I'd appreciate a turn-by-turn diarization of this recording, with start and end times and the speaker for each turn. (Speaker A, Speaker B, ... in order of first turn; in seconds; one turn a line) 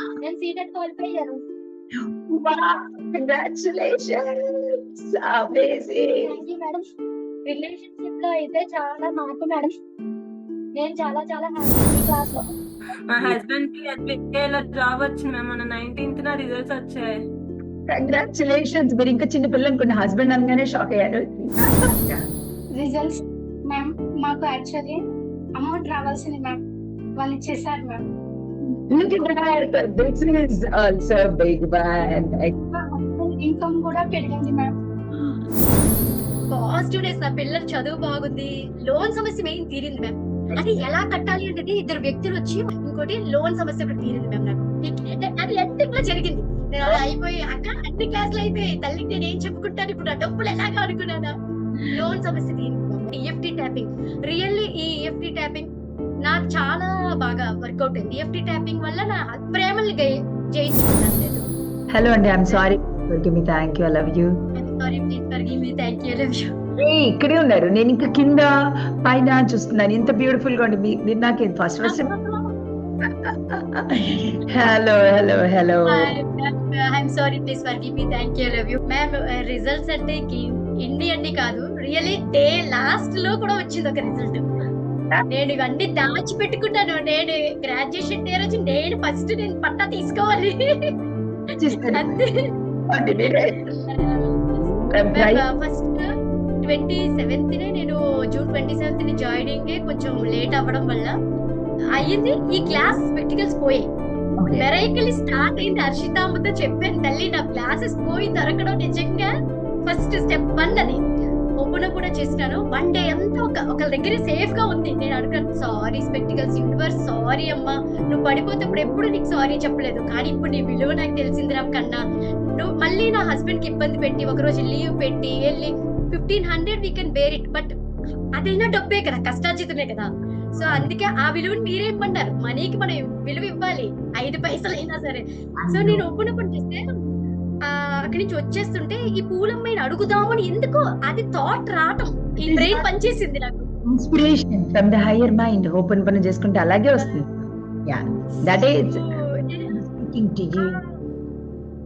Speaker A: 0.2-1.4
Speaker B: 2.3-4.4
Speaker B: 4.9-6.3
Speaker A: 6.2-6.8
Speaker A: 7.5-9.7
Speaker A: 10.8-12.5
Speaker C: 13.1-17.2
Speaker B: 17.9-22.2
Speaker D: 22.7-25.0
Speaker D: 25.6-26.6
Speaker D: 27.2-28.0
Speaker B: 28.9-32.5
Speaker D: 32.7-34.7
Speaker E: 36.5-51.3
Speaker B: 40.5-40.9
Speaker E: 51.9-55.7
Speaker E: 56.2-61.5
Speaker B: 61.9-64.3
Speaker E: 64.5-66.4
Speaker B: 66.8-72.1
Speaker E: 71.8-72.5
Speaker B: 73.5-76.1
Speaker E: 75.9-84.4
Speaker E: 85.3-90.5
Speaker B: 91.5-92.2
Speaker E: 91.9-92.3
Speaker B: 92.9-93.6
Speaker E: 93.9-96.0
Speaker B: 94.9-95.5
Speaker E: 96.6-101.1
Speaker E: 101.9-103.8
Speaker B: 104.4-104.7
Speaker E: 104.6-109.3
Speaker E: 109.8-111.0
Speaker E: 111.6-127.7
Speaker E: 128.4-136.8
Speaker B: 135.6-136.0
Speaker E: 137.7-143.7
Speaker B: 142.4-142.8
Speaker B: 143.9-149.0
Speaker E: 147.0-147.2
Speaker E: 148.3-149.8
Speaker B: 149.8-150.8
Speaker E: 150.6-151.0